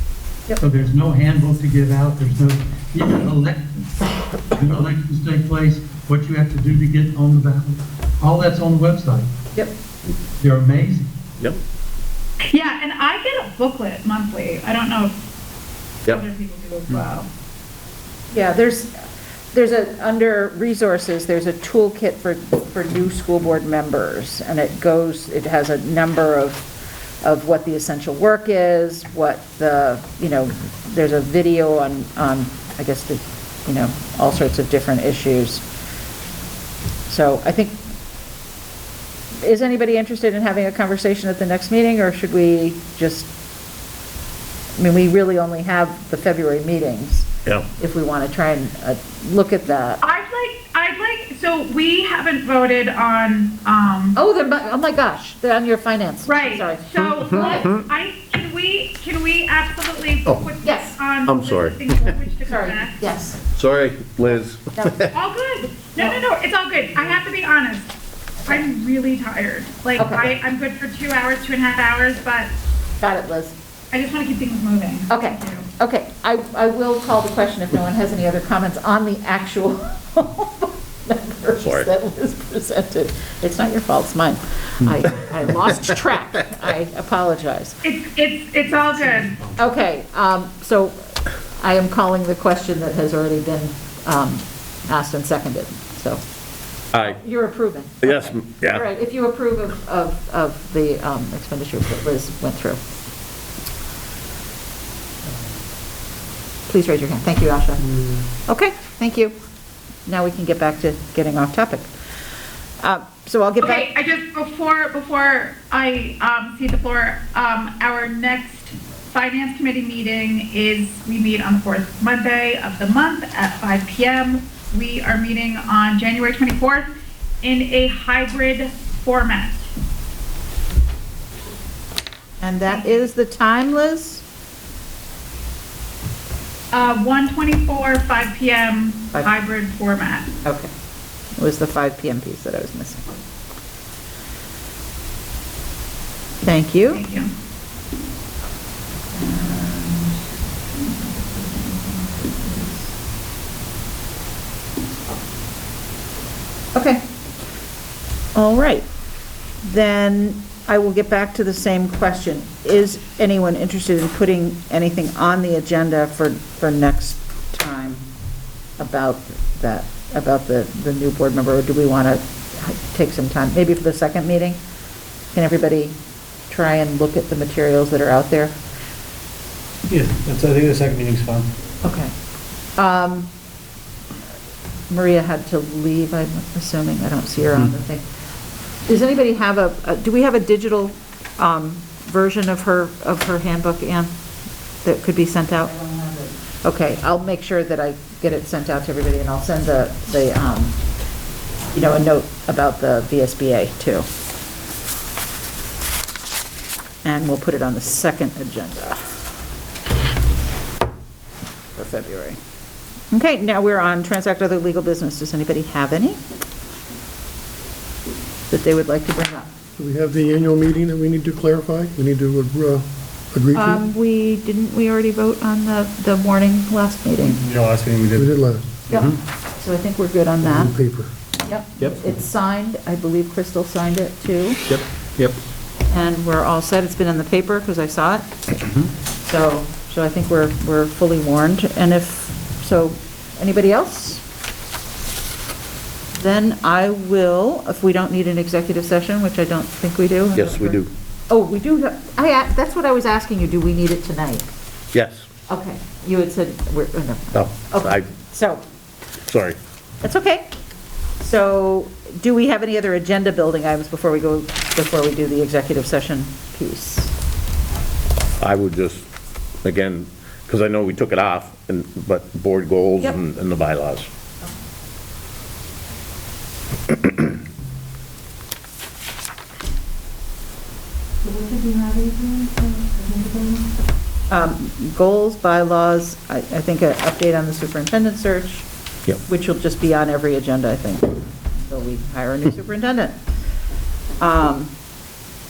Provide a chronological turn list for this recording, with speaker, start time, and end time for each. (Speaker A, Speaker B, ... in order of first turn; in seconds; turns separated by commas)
Speaker A: 0.6-4.0, Speaker A: 4.5-9.3, Speaker A: 10.4-11.1, Speaker B: 12.4-15.1, Speaker B: 16.1-17.3, Speaker C: 18.3-26.6, Speaker C: 27.2-35.6, Speaker C: 37.1-37.8, Speaker C: 39.4-43.3, Speaker C: 44.8-50.0, Speaker B: 50.0-54.1, Speaker C: 54.1-57.7, Speaker B: 56.2-63.0, Speaker D: 57.2-57.8, Speaker C: 60.6-61.0, Speaker D: 61.2-62.1, Speaker C: 62.5-63.4, Speaker D: 63.5-65.1, Speaker C: 64.8-65.1, Speaker B: 65.1-67.9, Speaker B: 68.5-72.5, Speaker C: 70.0-70.3, Speaker C: 73.0-73.5, Speaker B: 73.9-75.7, Speaker C: 75.1-87.8, Speaker D: 81.6-81.9, Speaker B: 87.8-89.4, Speaker C: 89.5-91.0, Speaker C: 91.6-96.2, Speaker D: 96.9-97.2, Speaker C: 96.9-102.8, Speaker D: 98.0-98.8, Speaker C: 106.7-107.9, Speaker C: 108.5-109.3, Speaker C: 110.0-111.9, Speaker C: 112.8-113.9, Speaker B: 113.6-126.9, Speaker B: 127.4-129.7, Speaker C: 132.4-134.2, Speaker B: 132.7-133.0, Speaker B: 136.7-140.3, Speaker C: 140.4-140.7, Speaker C: 141.3-143.1, Speaker C: 146.4-147.0, Speaker B: 146.9-147.3, Speaker C: 149.1-150.2, Speaker C: 150.7-152.9, Speaker C: 156.7-157.0, Speaker C: 158.3-158.8, Speaker C: 159.6-168.1, Speaker C: 168.8-174.6, Speaker C: 175.3-176.0, Speaker C: 176.5-178.6, Speaker E: 179.9-181.5, Speaker C: 181.8-182.1, Speaker C: 182.8-183.3, Speaker C: 184.9-188.0, Speaker C: 188.8-194.1, Speaker C: 194.8-200.8, Speaker C: 201.7-204.1, Speaker C: 207.0-209.1, Speaker C: 211.8-212.4, Speaker C: 213.1-216.2, Speaker C: 218.5-219.5, Speaker F: 219.8-223.8, Speaker C: 223.5-227.4, Speaker E: 227.4-229.2, Speaker F: 228.1-228.8, Speaker C: 228.9-230.7, Speaker F: 230.4-231.1, Speaker C: 231.4-234.7, Speaker E: 234.7-235.4, Speaker C: 235.9-238.3, Speaker C: 239.2-244.2, Speaker C: 246.2-250.8, Speaker D: 250.3-250.9, Speaker C: 251.3-254.5, Speaker D: 254.9-255.2, Speaker C: 255.5-258.6, Speaker D: 257.3-258.1, Speaker D: 259.3-259.6, Speaker C: 260.0-260.5, Speaker C: 261.2-267.1, Speaker D: 268.4-269.1, Speaker D: 269.6-274.1, Speaker D: 276.9-277.2, Speaker C: 284.3-288.7, Speaker C: 289.2-293.2, Speaker C: 294.2-294.7